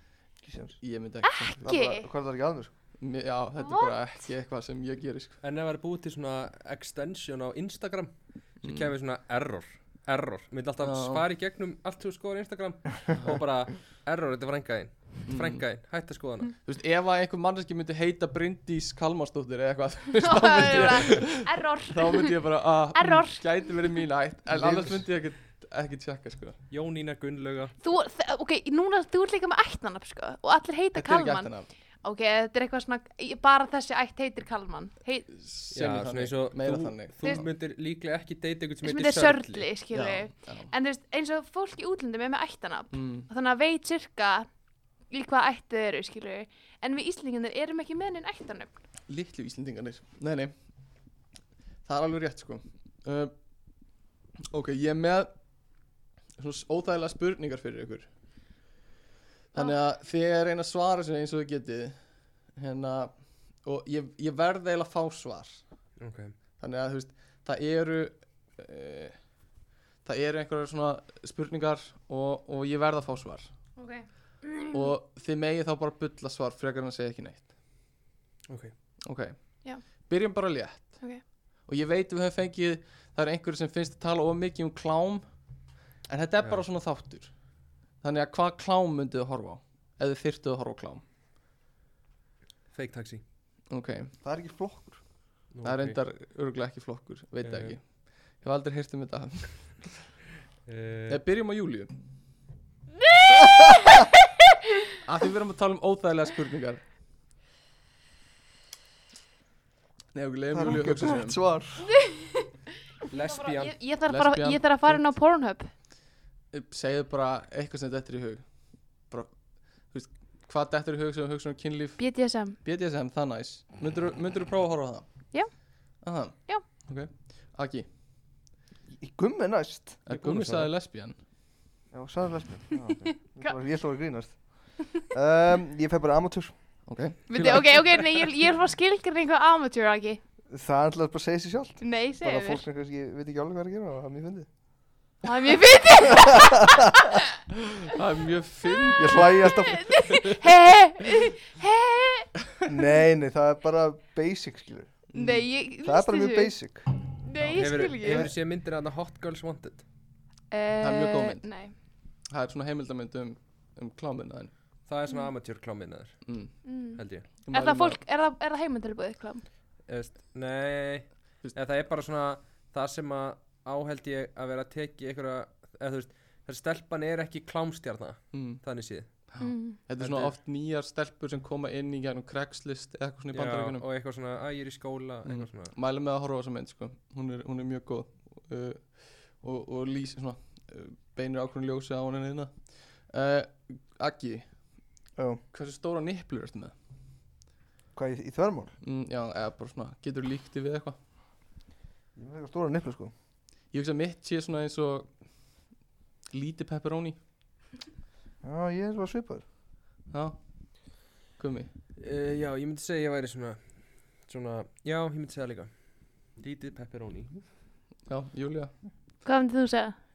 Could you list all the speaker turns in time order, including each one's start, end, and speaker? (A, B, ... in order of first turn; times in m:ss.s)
0:00.4-0:00.8 A
0:00.8-0:01.7 B
0:01.2-0:02.1 C
0:01.6-0:02.7 A
0:03.0-0:05.4 B
0:03.6-0:04.0 C
0:05.4-0:16.5 D
0:08.6-0:08.9 B
0:10.8-0:11.2 B
0:13.1-0:13.4 B
0:15.3-0:15.6 B
0:16.6-0:26.6 B
0:20.2-0:22.4 C
0:22.9-0:23.7 C
0:26.7-0:27.8 D
0:27.8-0:31.5 C
0:30.9-0:31.7 B
0:32.0-0:35.3 C
0:35.3-0:37.4 B
0:35.7-0:39.7 D
0:38.8-0:44.5 C
0:39.9-0:40.7 B
0:42.9-0:43.3 B
0:45.1-0:48.8 C
0:49.1-0:50.5 B
0:51.8-0:53.3 B
0:54.4-0:55.3 B
0:56.4-0:58.1 B
0:59.5-1:02.0 B
1:02.5-1:05.6 B
1:06.0-1:06.3 D
1:06.6-1:09.2 B
1:10.0-1:13.5 B
1:13.8-1:14.9 C
1:14.7-1:17.5 B
1:19.0-1:21.0 B
1:21.6-1:25.2 B
1:26.1-1:27.3 B
1:28.0-1:31.0 B
1:32.7-1:33.2 D
1:33.7-1:34.1 B
1:34.2-1:35.1 A
1:35.5-1:36.0 D
1:35.6-1:39.9 B
1:37.4-1:37.7 D
1:40.6-1:41.2 D
1:41.1-1:41.9 B
1:43.2-1:44.1 C
1:45.0-1:46.8 B
1:50.1-1:51.4 B
1:50.5-1:51.9 A
1:52.0-1:52.5 C
1:53.1-1:53.8 D
1:53.1-1:55.7 C
1:54.1-1:55.0 B
1:56.5-2:05.2 B
2:02.0-2:02.6 C
2:06.0-2:07.9 B
2:09.0-2:10.0 A
2:10.0-2:11.1 B
2:10.1-2:10.7 D
2:11.9-2:16.9 A
2:16.8-2:18.3 B
2:17.3-2:20.2 C
2:20.5-2:24.5 A
2:21.8-2:22.6 C
2:25.2-2:26.9 C
2:26.1-2:26.8 A
2:27.8-2:29.3 B
2:28.7-2:32.3 C
2:29.0-2:30.3 A
2:32.6-2:35.1 A
2:35.1-2:35.4 B
2:35.1-2:36.5 C
2:35.8-2:36.9 A
2:37.2-2:38.3 C
2:37.4-2:39.8 D
2:38.0-2:38.3 A
2:40.5-2:41.7 C
2:40.8-2:41.4 B
2:42.3-2:44.5 B
2:44.9-2:46.2 D
2:46.2-2:46.5 B
2:46.6-2:49.4 C
2:47.0-2:47.3 D
2:47.4-2:48.0 B
2:49.9-2:59.3 D
2:58.3-2:58.6 B
2:59.3-3:03.8 B
2:59.4-2:59.8 C
3:00.0-3:00.3 D
3:03.3-3:05.7 D
3:05.2-3:14.5 B
3:15.5-3:16.7 B
3:17.9-3:18.7 A
3:18.8-3:21.0 B
3:22.1-3:23.1 A
3:23.7-3:25.1 B
3:26.3-3:27.2 B
3:28.4-3:29.4 A
3:30.1-3:30.4 B
3:31.4-3:31.7 B
3:32.0-3:35.7 D
3:36.3-3:37.4 D
3:38.1-3:38.7 B
3:39.2-3:40.0 C